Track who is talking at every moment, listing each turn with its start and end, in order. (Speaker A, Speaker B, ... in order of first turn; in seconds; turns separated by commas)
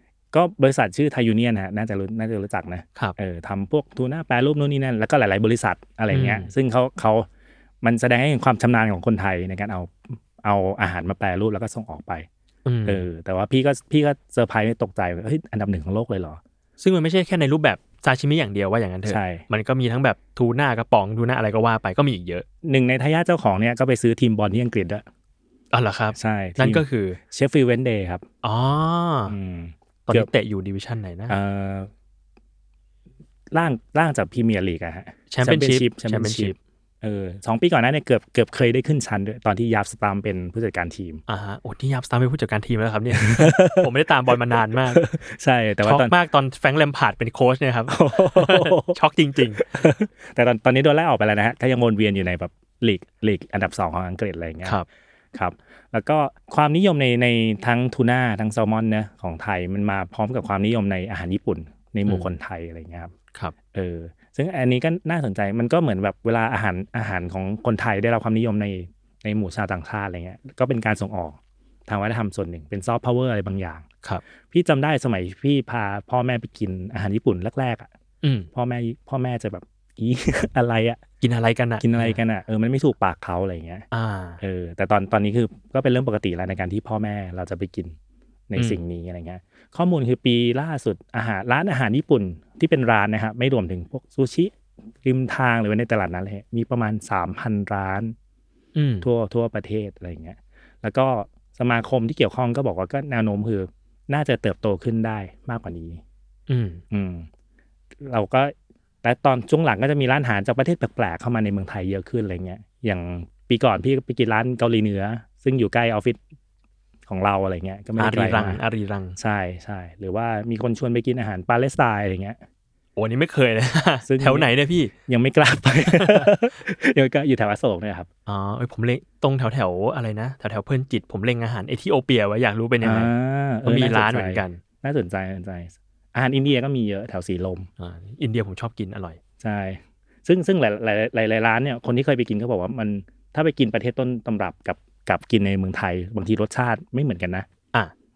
Speaker A: 0.3-7.3, Speaker B: 6.1-6.5, Speaker A: 7.8-12.3, Speaker B: 12.6-13.0, Speaker A: 12.8-16.4, Speaker B: 16.8-22.4, Speaker A: 19.1-19.4, Speaker A: 22.6-25.0, Speaker B: 25.7-27.2, Speaker A: 26.1-28.2, Speaker B: 28.4-29.4, Speaker A: 29.3-30.3, Speaker B: 30.1-31.4, Speaker A: 31.3-31.9, Speaker A: 33.5-41.2, Speaker B: 35.3-36.5, Speaker B: 41.3-45.0, Speaker A: 43.1-43.9, Speaker A: 44.9-46.1, Speaker B: 45.8-49.6, Speaker A: 47.9-49.0, Speaker A: 49.5-54.8, Speaker A: 55.3-63.1, Speaker B: 62.0-62.3, Speaker A: 63.7-73.8, Speaker A: 74.5-77.9, Speaker B: 78.2-78.5, Speaker A: 78.5-81.0, Speaker B: 81.2-82.2, Speaker A: 81.8-83.8, Speaker B: 83.9-84.4, Speaker A: 84.4-87.9, Speaker A: 88.5-98.1, Speaker B: 98.7-99.1, Speaker A: 99.0-106.0, Speaker B: 106.5-106.8, Speaker A: 106.9-107.3, Speaker A: 108.0-116.2, Speaker A: 117.1-118.6, Speaker B: 118.0-119.2, Speaker A: 119.2-122.4, Speaker B: 123.0-124.9, Speaker A: 124.0-124.5, Speaker A: 125.1-128.1, Speaker B: 125.9-126.3, Speaker B: 128.2-133.1, Speaker A: 132.8-137.7, Speaker B: 133.6-134.6, Speaker B: 137.8-139.2, Speaker A: 139.4-147.4